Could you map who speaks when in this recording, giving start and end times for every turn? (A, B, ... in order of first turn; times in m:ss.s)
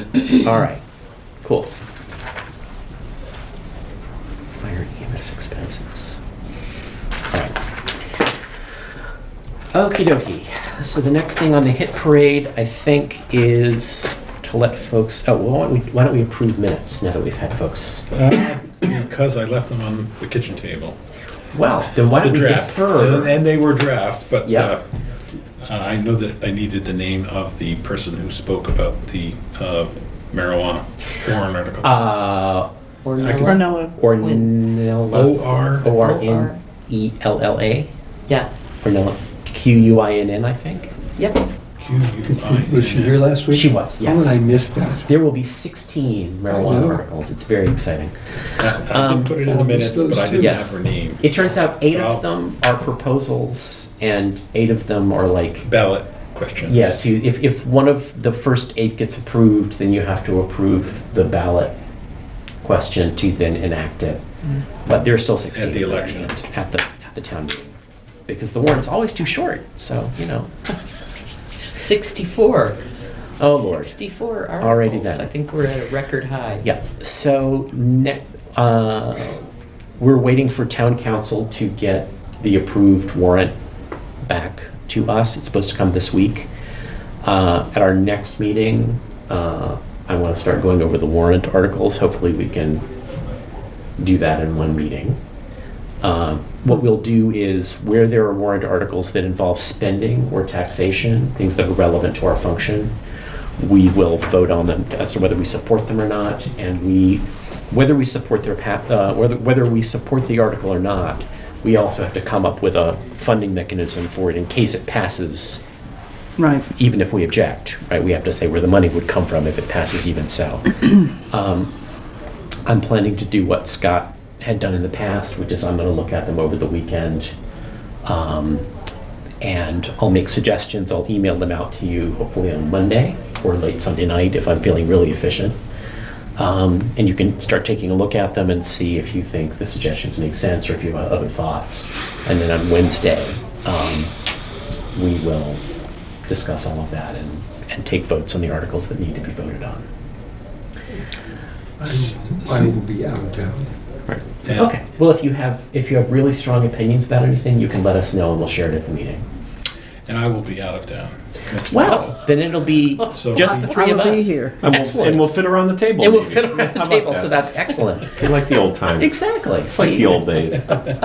0:00.4-0:00.8 A
0:01.4-0:01.7 A
0:04.5-0:06.2 A
0:07.3-0:07.6 A
0:09.7-0:18.1 A
0:18.1-0:21.0 B
0:21.5-0:23.4 A
0:22.2-0:24.8 B
0:24.4-0:24.7 A
0:25.6-0:32.1 B
0:31.8-0:32.7 A
0:33.0-0:34.4 C
0:33.2-0:33.5 B
0:33.4-0:34.0 D
0:34.0-0:37.9 A
0:35.1-0:35.9 B
0:35.9-0:36.6 C
0:38.8-0:40.9 A
0:41.2-0:41.5 C
0:41.8-0:43.2 B
0:42.4-0:45.1 E
0:43.5-0:44.4 A
0:45.1-0:49.4 A
0:46.5-0:47.0 E
0:48.6-0:52.2 B
0:49.5-0:50.6 E
0:50.4-0:55.7 A
0:55.6-0:57.0 B
0:56.7-1:01.8 A
1:02.6-1:04.2 A
1:04.8-1:07.7 A
1:05.5-1:06.4 B
1:08.3-1:10.5 A
1:11.8-1:12.8 C
1:13.4-1:13.9 A
1:13.6-1:16.6 C
1:14.6-1:15.3 A
1:16.6-1:19.4 A
1:20.0-1:23.5 A
1:24.2-1:26.5 A
1:27.2-1:32.8 A
1:34.0-1:35.2 A
1:36.0-1:42.9 A
1:43.6-1:55.6 A
1:56.4-1:56.6 D
1:56.6-2:01.7 A
2:02.7-2:07.3 A
2:08.0-2:08.7 A
2:09.4-2:15.6 A
2:16.4-2:24.1 A
2:24.9-2:25.6 A
2:26.3-2:29.9 A
2:31.8-2:33.7 E
2:31.9-2:32.7 B
2:34.4-2:34.7 B
2:34.5-2:39.2 A
2:40.1-2:42.2 B
2:41.7-2:45.3 A
2:43.1-2:43.8 B
2:43.5-2:44.6 D
2:44.6-2:47.4 F
2:46.0-2:48.2 A
2:48.1-2:50.7 F
2:49.0-2:50.2 A